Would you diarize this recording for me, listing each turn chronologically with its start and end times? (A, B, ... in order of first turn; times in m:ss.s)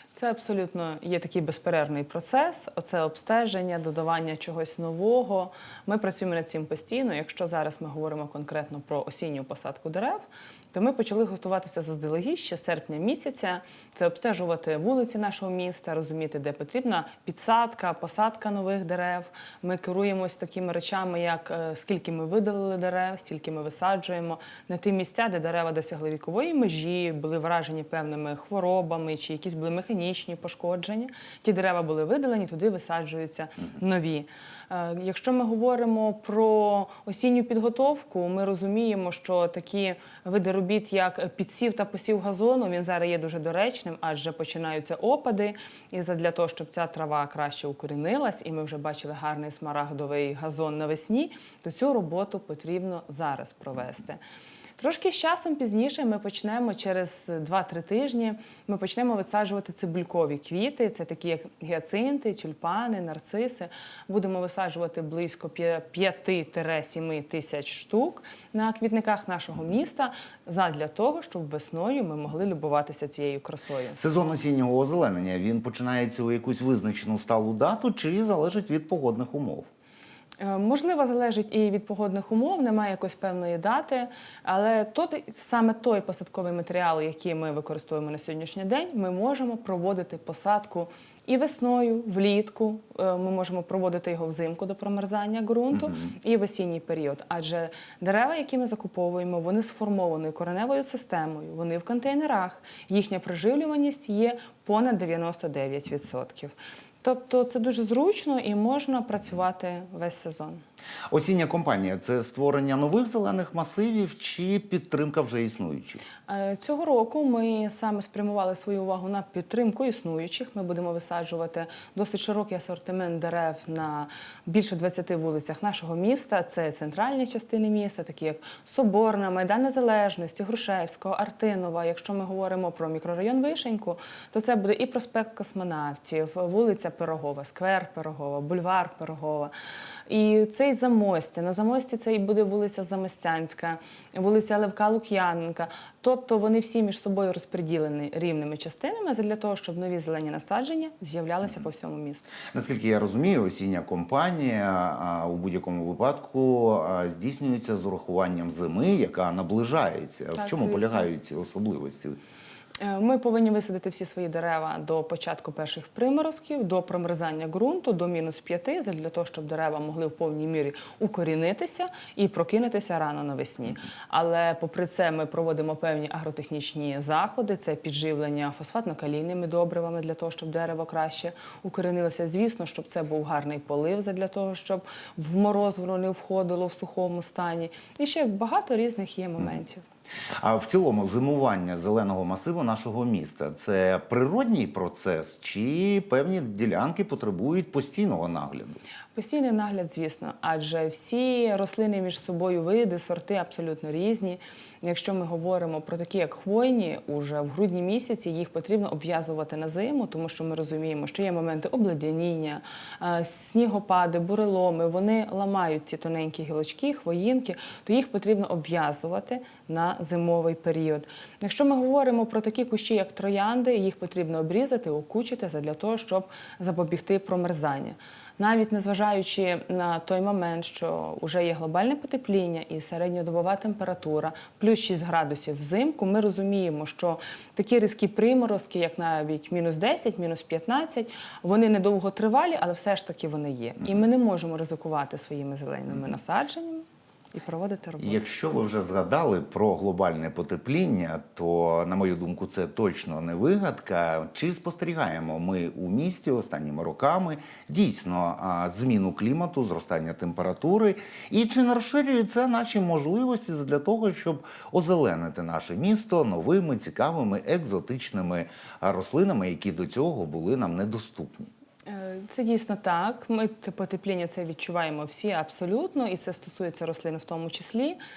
0:00.1-0:54.2 A
0:54.8-1:14.0 A
1:14.0-1:19.7 B
1:20.4-1:50.6 A
1:51.1-1:56.0 B
1:56.2-2:19.5 A
2:20.1-2:32.3 A
2:32.5-2:42.2 B
2:40.3-2:41.1 A
2:42.8-3:09.8 A
3:10.4-3:18.8 B
3:19.1-4:08.2 A
4:08.0-4:31.5 B
4:31.8-4:38.0 A